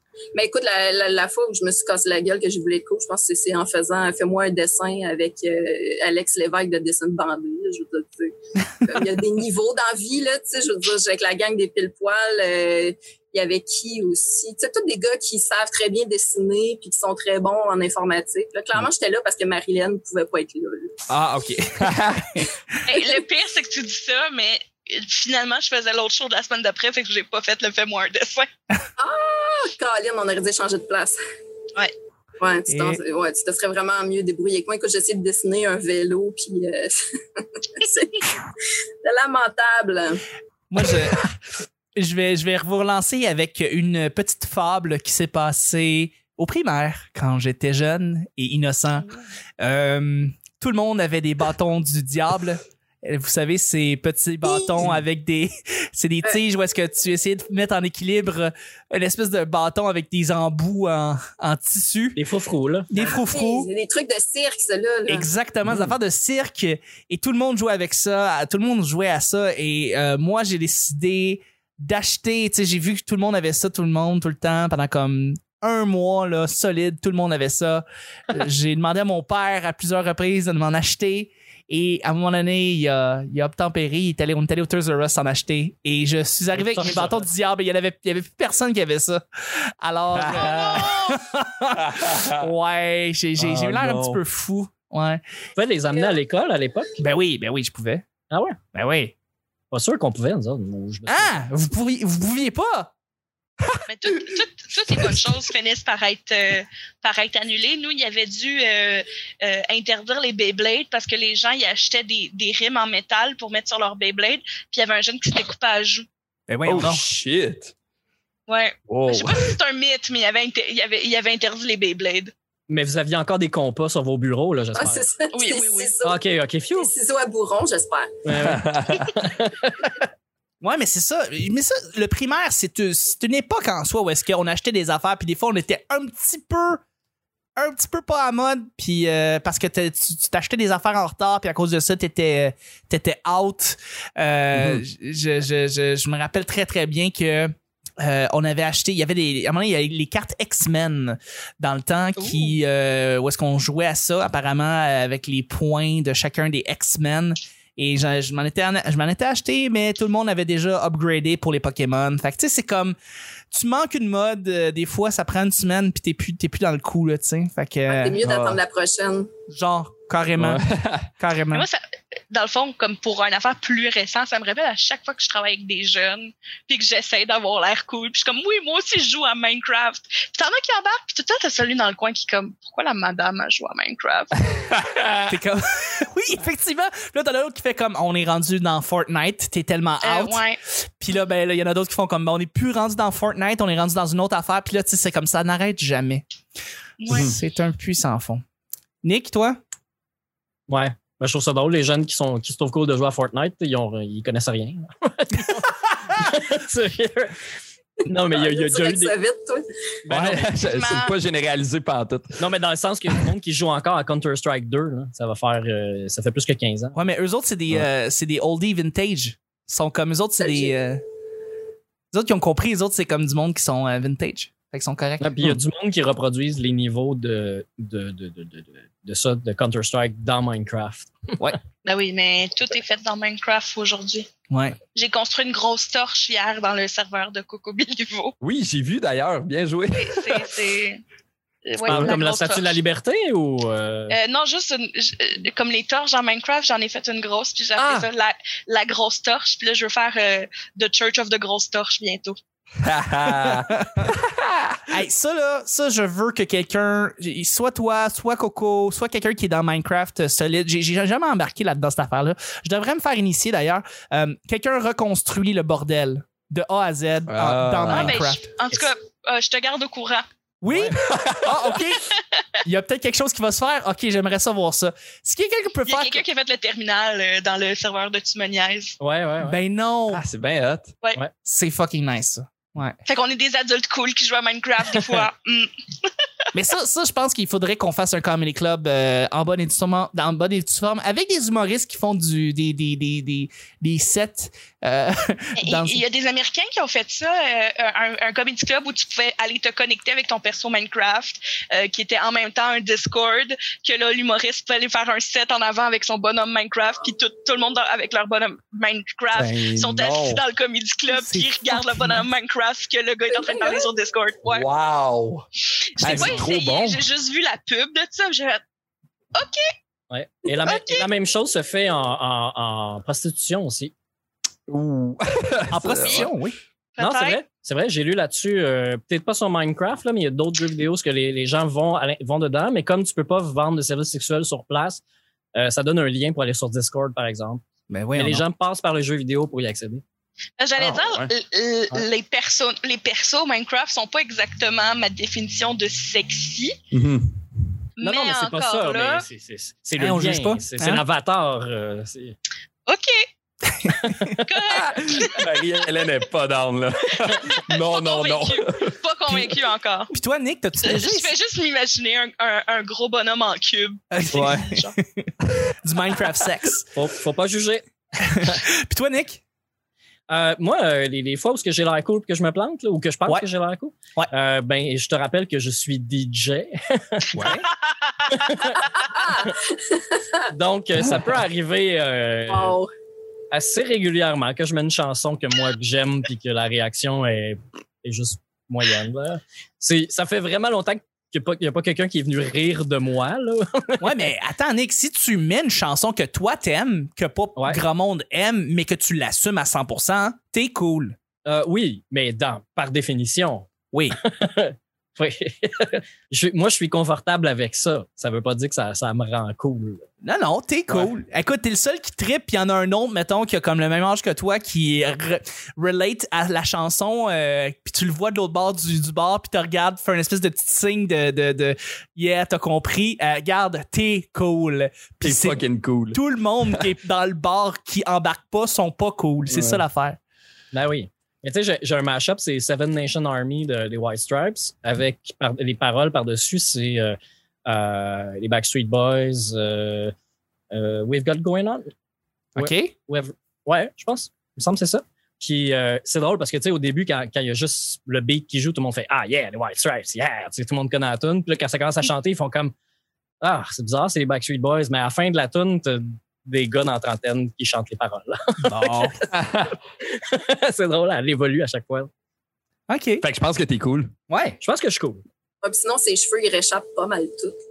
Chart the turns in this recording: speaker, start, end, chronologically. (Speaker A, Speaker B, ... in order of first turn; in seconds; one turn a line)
Speaker A: 0.3-20.9
Speaker B: 21.1-22.5
Speaker C: 21.8-22.4
Speaker D: 22.9-28.5
Speaker A: 29.0-31.2
Speaker A: 32.4-38.5
Speaker B: 32.7-33.0
Speaker A: 39.0-40.2
Speaker B: 40.7-41.2
Speaker B: 42.0-49.1
Speaker B: 49.6-62.2
Speaker E: 62.1-62.9
Speaker B: 62.9-63.7
Speaker A: 63.0-65.3
Speaker B: 65.1-95.2
Speaker C: 65.7-65.9
Speaker E: 86.5-87.2
Speaker C: 90.2-91.2
Speaker C: 91.8-92.5
Speaker C: 93.4-94.2
Speaker E: 95.6-97.0
Speaker B: 97.0-98.0
Speaker E: 98.3-98.6
Speaker B: 98.7-99.1
Speaker E: 99.7-101.4
Speaker B: 101.1-102.9
Speaker D: 103.9-116.1
Speaker B: 116.5-117.0
Speaker C: 116.7-117.7
Speaker D: 118.5-122.3
Speaker C: 118.9-119.5
Speaker E: 122.7-125.1
Speaker A: 124.8-126.2
Speaker D: 125.3-126.0
Speaker E: 126.0-126.9
Speaker A: 126.8-128.2
Speaker E: 128.2-129.9
Speaker C: 128.3-129.2
Speaker B: 130.6-136.8
Speaker B: 137.6-163.0
Speaker C: 144.5-144.8
Speaker B: 163.5-168.2
Speaker A: 167.9-169.3
Speaker C: 168.2-168.6
Speaker B: 169.5-171.7
Speaker C: 170.4-171.1
Speaker D: 171.5-184.4
Speaker C: 184.7-185.3
Speaker B: 185.3-190.4
Speaker D: 190.0-190.6
Speaker B: 191.0-196.2
Speaker D: 197.0-197.3
Speaker B: 197.1-198.4
Speaker C: 197.1-197.4
Speaker B: 199.0-199.6
Speaker E: 200.7-207.4
Speaker E: 208.1-209.2
Speaker A: 208.3-209.7
Speaker E: 210.1-210.6
Speaker C: 210.1-212.4
Speaker D: 210.7-211.2
Speaker E: 212.4-217.0
Speaker B: 216.9-221.0
Speaker A: 220.4-220.8
Speaker B: 222.1-225.3
Speaker E: 225.2-231.4
Speaker D: 231.8-234.3
Speaker B: 234.5-234.8
Speaker D: 234.9-238.3
Speaker C: 238.4-240.5
Speaker D: 240.0-241.0
Speaker D: 241.7-242.8
Speaker E: 241.8-244.2
Speaker C: 241.9-242.1
Speaker D: 244.1-252.4
Speaker C: 247.8-248.1
Speaker C: 252.8-254.9
Speaker B: 253.3-254.1
Speaker B: 254.9-268.5
Speaker C: 267.3-268.2
Speaker D: 267.9-270.2
Speaker B: 270.6-272.1
Speaker E: 270.7-271.0
Speaker C: 271.1-271.7
Speaker D: 272.1-272.4
Speaker B: 272.6-276.2
Speaker D: 275.9-279.0
Speaker E: 279.0-279.6
Speaker B: 279.4-280.2
Speaker C: 280.1-281.0
Speaker B: 281.4-283.0
Speaker D: 283.1-286.1
Speaker B: 286.5-296.0
Speaker D: 295.6-314.7
Speaker C: 309.3-310.4
Speaker B: 311.1-312.3
Speaker A: 313.3-313.9
Speaker C: 314.5-315.5
Speaker D: 316.0-318.6
Speaker B: 316.0-317.0
Speaker C: 316.0-316.5
Speaker D: 319.4-319.7
Speaker E: 320.1-323.9
Speaker D: 320.6-321.1
Speaker C: 324.7-326.3
Speaker B: 325.7-326.6
Speaker D: 326.0-326.3
Speaker D: 327.0-327.4
Speaker E: 327.0-335.0
Speaker E: 335.6-340.0
Speaker B: 337.9-338.4
Speaker D: 340.6-346.8
Speaker C: 340.8-341.3
Speaker C: 346.9-347.4
Speaker D: 348.0-349.2
Speaker E: 348.0-352.4
Speaker B: 350.0-351.0
Speaker D: 352.9-353.3
Speaker B: 353.8-354.4
Speaker E: 354.0-354.4
Speaker D: 354.4-355.5
Speaker C: 354.7-358.9
Speaker D: 357.1-360.1
Speaker B: 360.1-361.3
Speaker D: 360.8-365.0
Speaker B: 364.1-365.3
Speaker C: 364.3-364.6
Speaker B: 365.8-366.9
Speaker E: 366.9-368.6
Speaker B: 368.2-369.4
Speaker E: 370.3-377.5
Speaker B: 377.3-377.7
Speaker E: 378.3-378.8
Speaker A: 379.0-380.4
Speaker E: 380.5-382.8
Speaker A: 382.5-382.9
Speaker E: 383.5-394.2
Speaker B: 394.0-401.1
Speaker E: 401.4-410.1
Speaker B: 403.9-404.2
Speaker B: 410.2-430.2
Speaker C: 425.2-426.2
Speaker C: 429.5-429.8
Speaker E: 430.7-440.1
Speaker E: 440.7-441.9
Speaker E: 442.6-452.7
Speaker B: 442.6-442.9
Speaker E: 453.4-459.3
Speaker B: 458.6-459.2
Speaker C: 459.3-459.8
Speaker E: 460.0-462.1
Speaker B: 462.9-463.3
Speaker C: 463.2-464.1
Speaker B: 464.3-464.6
Speaker E: 464.6-465.2
Speaker A: 465.6-467.6